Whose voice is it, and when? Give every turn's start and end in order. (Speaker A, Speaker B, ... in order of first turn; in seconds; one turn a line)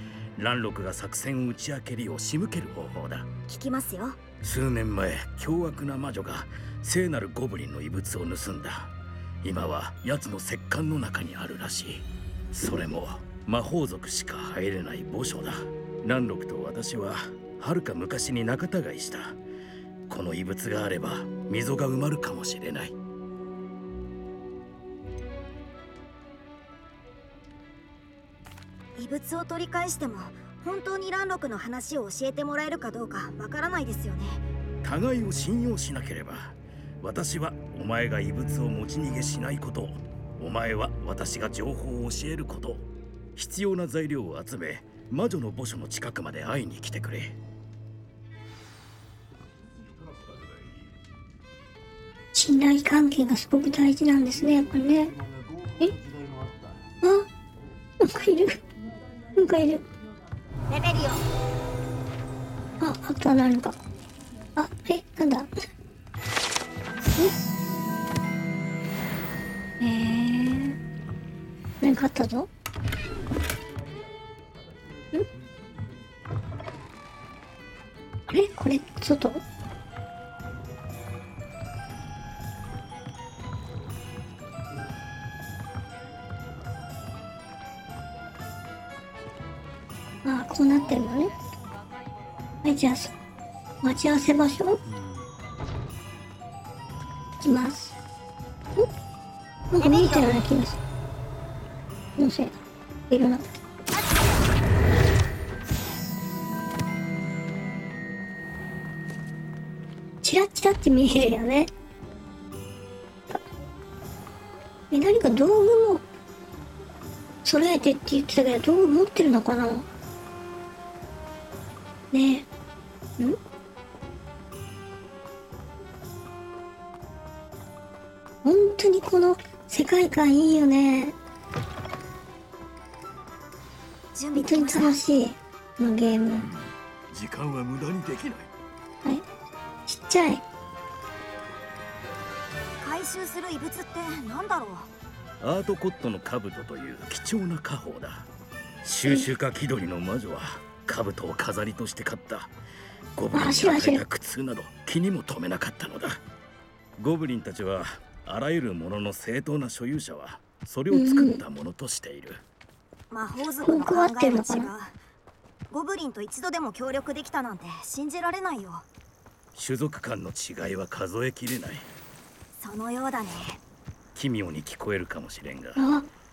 Speaker A: 0.4-3.3
Speaker B: 3.5-4.2
Speaker A: 4.4-8.9
Speaker A: 9.4-19.4
Speaker A: 20.1-22.9
Speaker B: 29.0-34.4
Speaker A: 34.8-47.4
Speaker C: 52.3-55.2
Speaker C: 57.0-57.3
Speaker C: 58.0-58.6
Speaker C: 59.4-59.9
Speaker B: 60.7-61.2
Speaker C: 62.8-63.8
Speaker C: 64.6-65.5
Speaker C: 67.0-67.3
Speaker C: 69.8-70.8
Speaker C: 71.8-72.5
Speaker C: 78.3-79.4
Speaker C: 90.2-91.3
Speaker C: 92.6-93.2
Speaker C: 93.8-94.8
Speaker C: 97.4-98.0
Speaker C: 99.7-100.8
Speaker B: 99.8-100.4
Speaker C: 102.2-103.6
Speaker B: 103.9-104.5
Speaker C: 110.2-111.7
Speaker C: 114.9-116.0
Speaker C: 117.4-119.9
Speaker C: 122.1-122.5
Speaker C: 128.4-131.2
Speaker B: 134.2-135.0
Speaker C: 134.3-136.5
Speaker A: 136.4-138.5
Speaker C: 139.9-140.4
Speaker B: 142.8-144.9
Speaker A: 145.4-148.3
Speaker A: 148.8-152.5
Speaker A: 153.2-156.2
Speaker C: 153.3-154.0
Speaker A: 157.0-162.4
Speaker C: 160.9-161.4
Speaker B: 163.1-164.9
Speaker C: 163.6-164.7
Speaker B: 165.7-168.8
Speaker A: 169.6-171.9
Speaker B: 172.6-173.6
Speaker A: 174.2-175.8
Speaker C: 175.8-176.1